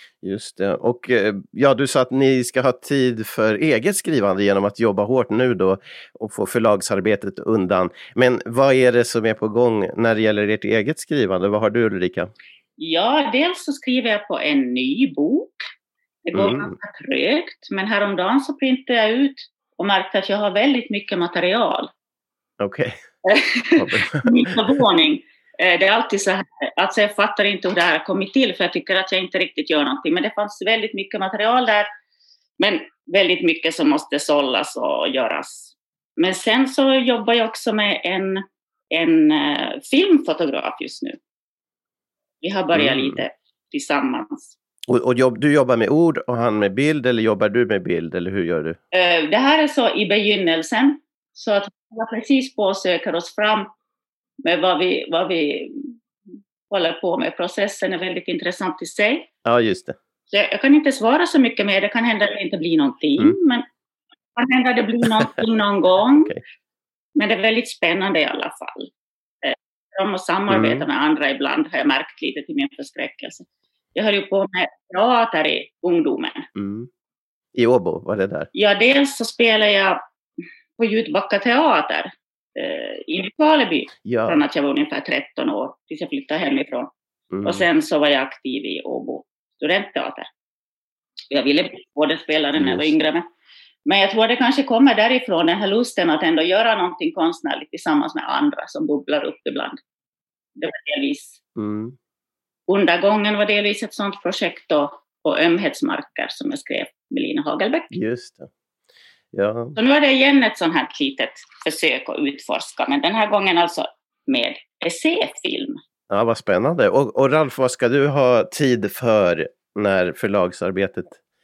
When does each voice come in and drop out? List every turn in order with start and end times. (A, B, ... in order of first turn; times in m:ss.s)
0:00.2-0:12.3 A
0:12.8-0:15.6 B
0:16.2-0:21.9 B
0:16.4-0:16.7 A
0:22.6-0:22.9 A
0:23.2-0:31.9 B
0:23.8-0:24.5 A
0:32.6-0:41.2 B
0:42.4-0:44.6 B
0:42.7-0:43.2 A
0:44.9-0:48.8 A
0:48.9-0:53.7 B
0:54.4-0:56.0 B
0:56.7-0:59.3 B
0:59.4-1:00.0 A
1:00.3-1:03.6 B
1:04.4-1:06.4 B
1:07.2-1:08.9 B
1:09.4-1:16.5 B
1:10.5-1:10.9 A
1:16.6-1:16.9 A
1:17.6-1:18.5 A
1:18.5-1:20.0 B
1:20.8-1:26.9 B
1:24.0-1:24.4 A
1:27.3-1:27.7 A
1:27.4-1:30.3 B
1:31.3-1:33.3 B
1:32.6-1:32.9 A
1:33.8-1:39.8 B
1:40.6-1:41.4 B
1:41.6-1:42.0 A
1:42.7-1:47.9 B
1:47.9-1:48.5 A
1:49.3-1:49.8 A
1:49.8-1:55.8 B
1:56.1-2:01.2 A